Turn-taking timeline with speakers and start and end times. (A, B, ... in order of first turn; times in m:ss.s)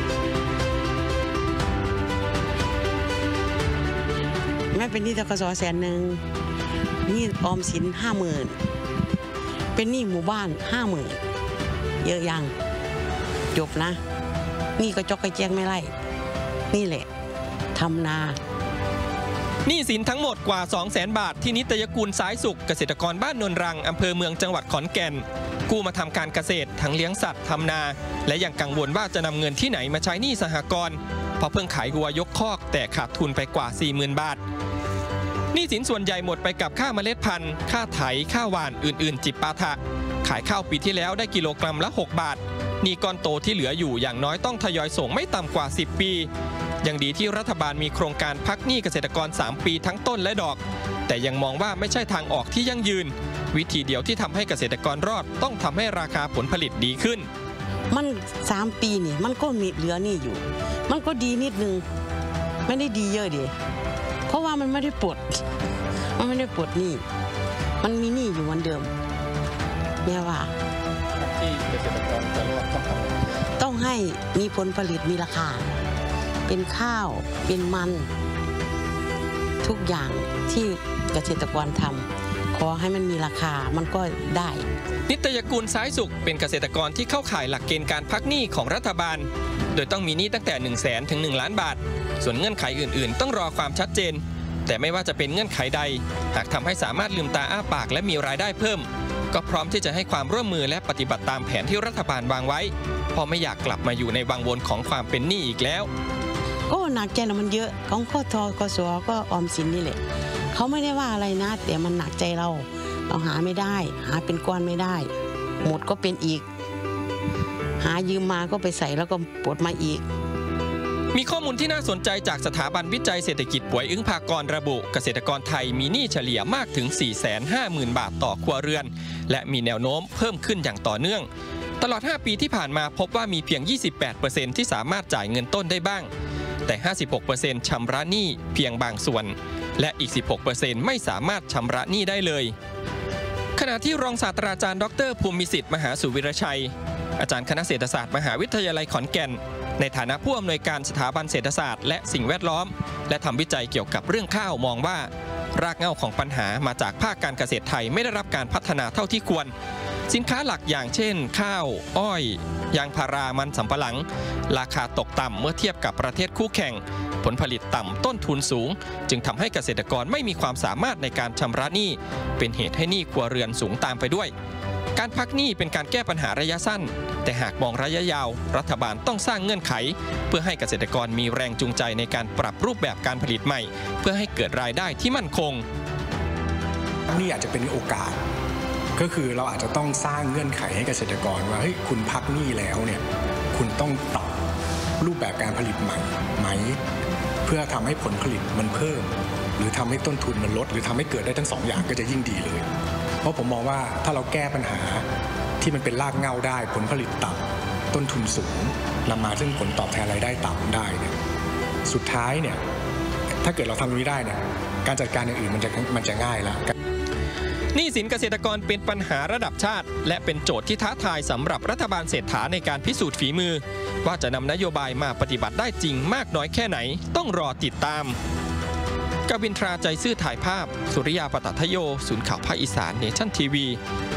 0:04.7-0:06.2 A
0:07.0-0:08.6 A
0:09.7-0:11.2 A
0:12.0-0:12.5 A
0:13.5-0:14.0 A
0:14.8-0:15.9 A
0:16.7-0:17.1 A
0:17.7-0:18.4 A
0:19.6-0:34.4 B
0:35.5-0:46.3 B
0:46.8-0:57.3 B
0:57.9-1:01.8 A
1:02.6-1:03.6 A
1:04.3-1:05.4 A
1:06.2-1:07.0 A
1:07.8-1:08.9 A
1:10.0-1:10.5 A
1:11.4-1:13.0 B
1:13.4-1:15.7 A
1:16.4-1:18.1 A
1:19.6-1:24.7 A
1:25.1-1:45.9 B
1:46.7-1:50.0 A
1:50.5-1:55.1 A
1:55.6-1:56.4 A
1:57.8-2:00.0 A
2:01.1-2:11.3 B
2:11.8-2:16.1 B
2:16.6-2:22.5 B
2:23.6-2:39.5 B
2:40.1-2:54.3 B
2:55.0-3:05.6 B
3:07.1-3:08.2 C
3:09.0-3:14.4 C
3:15.0-3:16.8 C
3:17.4-3:22.6 C
3:23.2-3:25.0 C
3:25.6-3:31.2 C
3:31.8-3:32.6 C
3:33.4-3:36.7 C
3:37.7-3:48.2 B
3:49.3-3:53.8 B